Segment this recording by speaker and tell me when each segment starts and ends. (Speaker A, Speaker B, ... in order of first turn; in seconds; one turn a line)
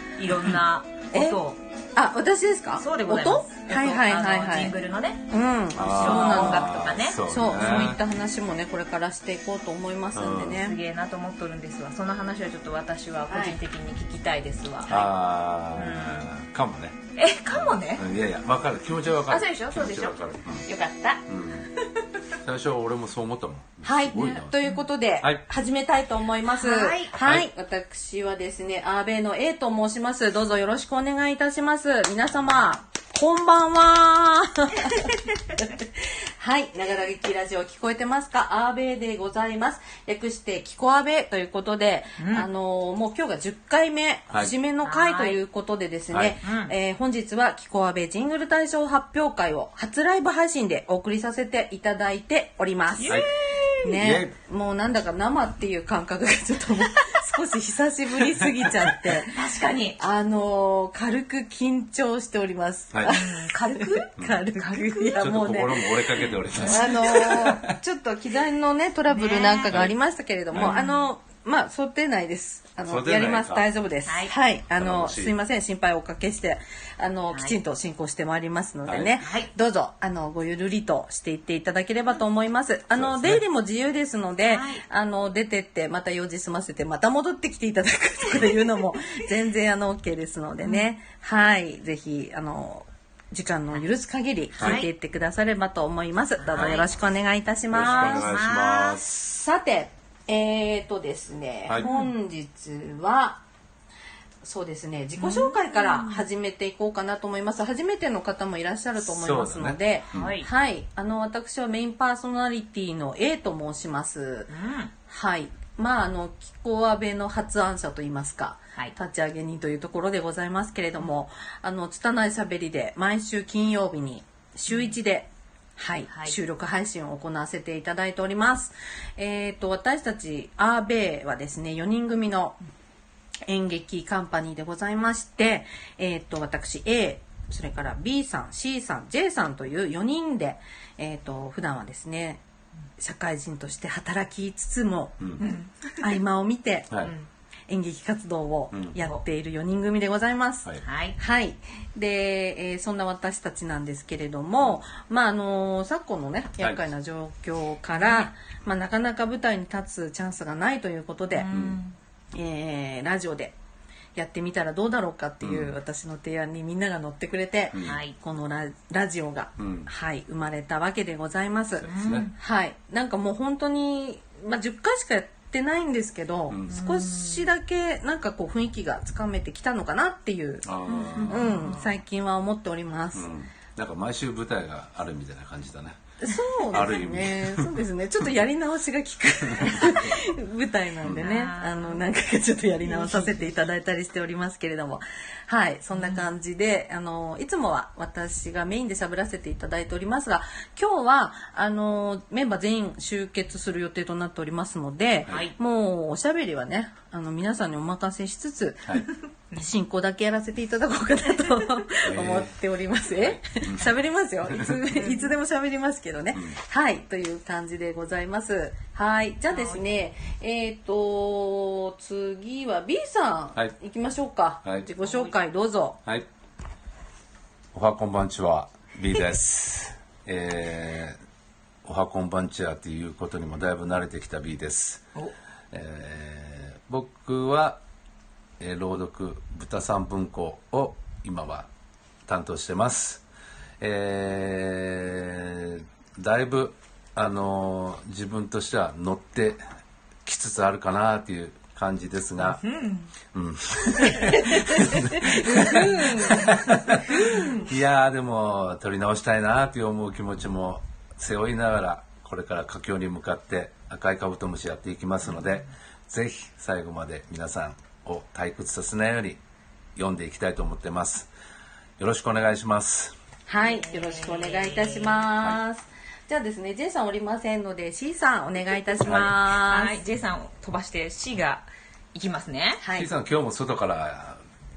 Speaker A: 0.1-1.6
Speaker B: 1.1-1.4
Speaker B: 1.9-4.7
Speaker A: 2.8-5.2
Speaker B: 5.3-10.8
Speaker A: 5.8-7.2
Speaker C: 5.8-8.0
Speaker C: 10.1-10.6
Speaker A: 10.6-15.1
Speaker B: 13.3-13.6
Speaker C: 14.9-17.0
Speaker A: 15.8-16.3
Speaker A: 17.1-18.0
Speaker C: 17.5-20.6
Speaker A: 19.3-21.2
Speaker C: 21.3-21.7
Speaker C: 22.4-24.5
Speaker B: 23.8-53.2
Speaker A: 26.5-27.1
Speaker C: 27.2-27.5
Speaker A: 42.2-42.5
Speaker A: 44.8-45.4
Speaker C: 46.1-46.4
Speaker A: 46.4-46.7
Speaker A: 53.0-53.8
Speaker B: 53.8-59.3
Speaker C: 53.9-54.3
Speaker A: 59.3-60.0
Speaker B: 60.0-98.3
Speaker A: 63.0-65.3
Speaker C: 65.2-67.8
Speaker A: 69.1-69.8
Speaker A: 70.5-71.0
Speaker C: 72.9-73.7
Speaker A: 74.0-74.3
Speaker C: 74.7-75.3
Speaker A: 77.3-77.6
Speaker C: 78.9-79.2
Speaker A: 79.2-79.5
Speaker C: 82.9-83.4
Speaker A: 84.4-84.8
Speaker A: 90.6-90.9
Speaker A: 94.6-94.9
Speaker A: 96.4-96.9
Speaker C: 97.7-99.4
Speaker A: 97.8-99.0
Speaker B: 99.3-103.4
Speaker A: 101.8-102.1
Speaker B: 104.4-114.5
Speaker A: 105.2-106.2
Speaker C: 109.0-110.3
Speaker A: 110.1-110.5
Speaker A: 114.5-114.9
Speaker B: 115.1-132.6
Speaker A: 124.7-124.9
Speaker A: 126.1-126.4
Speaker B: 133.4-142.4
Speaker B: 143.0-145.3
Speaker A: 145.4-146.0
Speaker B: 146.0-147.0
Speaker A: 147.0-147.3
Speaker B: 147.7-161.5
Speaker A: 150.8-151.2
Speaker A: 157.9-158.3
Speaker A: 161.3-162.0
Speaker C: 161.5-161.8
Speaker B: 162.3-163.5
Speaker B: 164.1-180.7
Speaker C: 165.4-165.7
Speaker C: 167.7-168.0
Speaker A: 167.8-168.2
Speaker C: 169.6-169.9
Speaker C: 171.8-172.3
Speaker A: 171.9-172.3
Speaker C: 176.5-176.8
Speaker A: 176.7-177.5
Speaker C: 180.6-181.7
Speaker A: 180.9-181.9
Speaker B: 181.2-183.3
Speaker C: 183.1-186.0
Speaker B: 186.2-226.0
Speaker C: 186.7-187.8
Speaker C: 189.5-190.2
Speaker C: 191.0-191.3
Speaker A: 191.2-192.0
Speaker A: 192.8-193.6
Speaker A: 195.9-196.2
Speaker A: 205.3-205.5
Speaker C: 212.1-212.5
Speaker C: 213.1-213.9
Speaker A: 214.9-215.3
Speaker A: 219.5-219.9
Speaker A: 225.0-225.3
Speaker C: 227.7-231.2
Speaker C: 231.8-235.0
Speaker C: 235.7-237.8
Speaker C: 238.6-241.7
Speaker C: 242.3-243.2
Speaker C: 243.8-249.6
Speaker C: 250.2-252.6
Speaker A: 252.4-253.1
Speaker C: 253.3-257.1
Speaker B: 254.3-256.4
Speaker A: 255.5-257.6
Speaker B: 257.1-257.6
Speaker C: 257.6-269.4
Speaker C: 269.9-271.3
Speaker C: 272.0-273.1
Speaker B: 273.5-280.0
Speaker A: 273.6-275.2
Speaker C: 279.1-279.3
Speaker A: 279.5-282.8
Speaker B: 282.8-283.1
Speaker C: 282.9-284.4